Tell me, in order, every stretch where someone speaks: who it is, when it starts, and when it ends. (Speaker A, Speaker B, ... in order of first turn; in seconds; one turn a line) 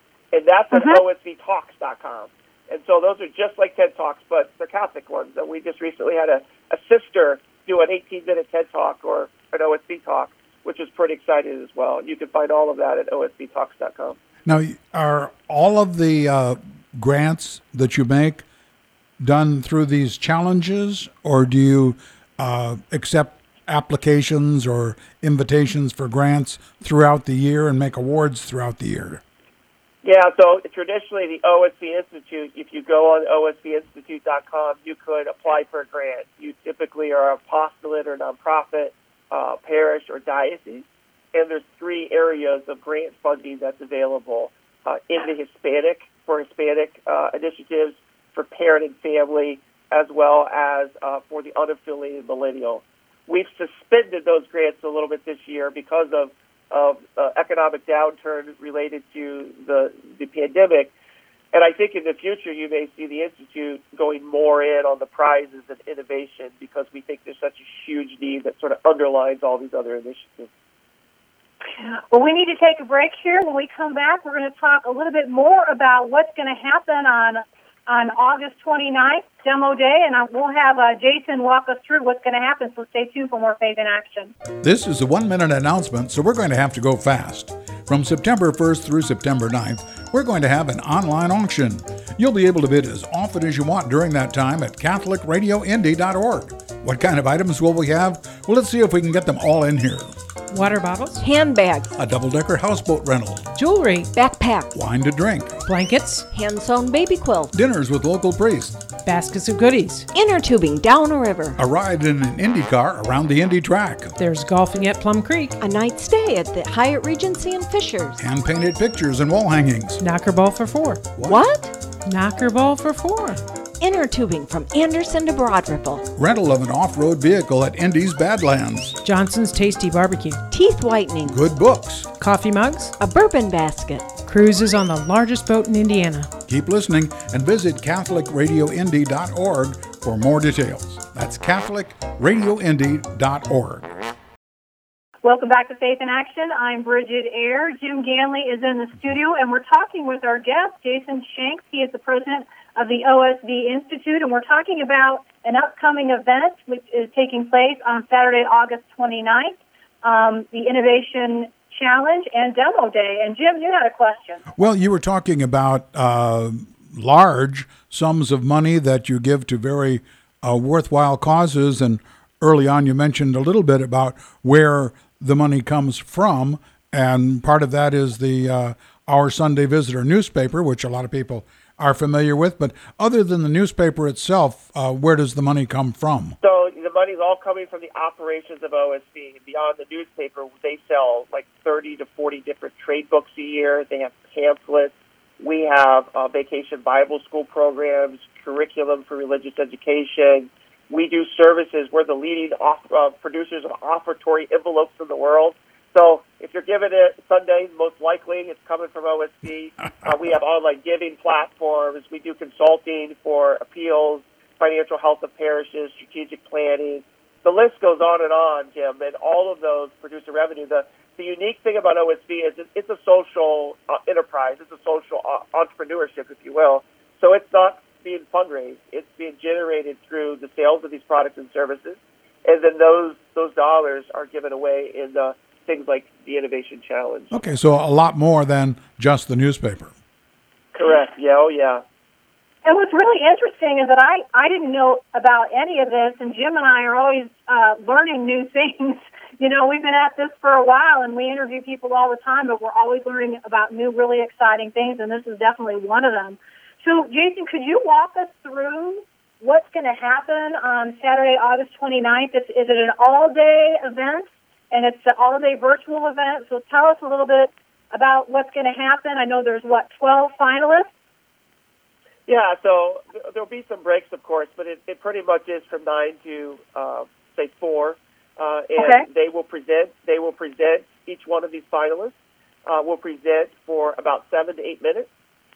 Speaker A: 0.3-14.2
Speaker B: 0.7-1.0
Speaker C: 14.4-18.4
Speaker C: 19.2-29.2
Speaker A: 30.0-60.9
Speaker A: 61.5-70.5
Speaker B: 71.8-84.3
Speaker C: 84.6-100.1
Speaker D: 100.5-101.2
Speaker E: 101.2-101.9
Speaker C: 101.9-103.5
Speaker D: 103.5-104.1
Speaker E: 104.1-104.7
Speaker C: 104.7-105.6
Speaker D: 105.7-106.2
Speaker E: 106.3-107.5
Speaker C: 107.5-108.8
Speaker D: 109.0-110.1
Speaker E: 110.1-111.6
Speaker C: 111.6-114.1
Speaker D: 114.2-115.5
Speaker E: 115.6-118.2
Speaker C: 118.2-120.0
Speaker D: 120.0-121.2
Speaker E: 121.2-121.7
Speaker D: 122.0-123.4
Speaker E: 123.8-126.1
Speaker C: 126.2-129.0
Speaker D: 129.0-130.4
Speaker E: 130.5-131.4
Speaker C: 131.2-132.1
Speaker D: 132.2-132.9
Speaker E: 133.0-134.2
Speaker D: 134.2-136.3
Speaker C: 136.5-143.9
Speaker B: 145.2-164.4
Speaker C: 164.6-186.4
Speaker A: 186.4-237.4
Speaker C: 237.3-239.9
Speaker A: 240.7-241.8
Speaker B: 242.6-270.9
Speaker A: 272.3-282.1
Speaker B: 278.8-279.0
Speaker A: 282.6-285.1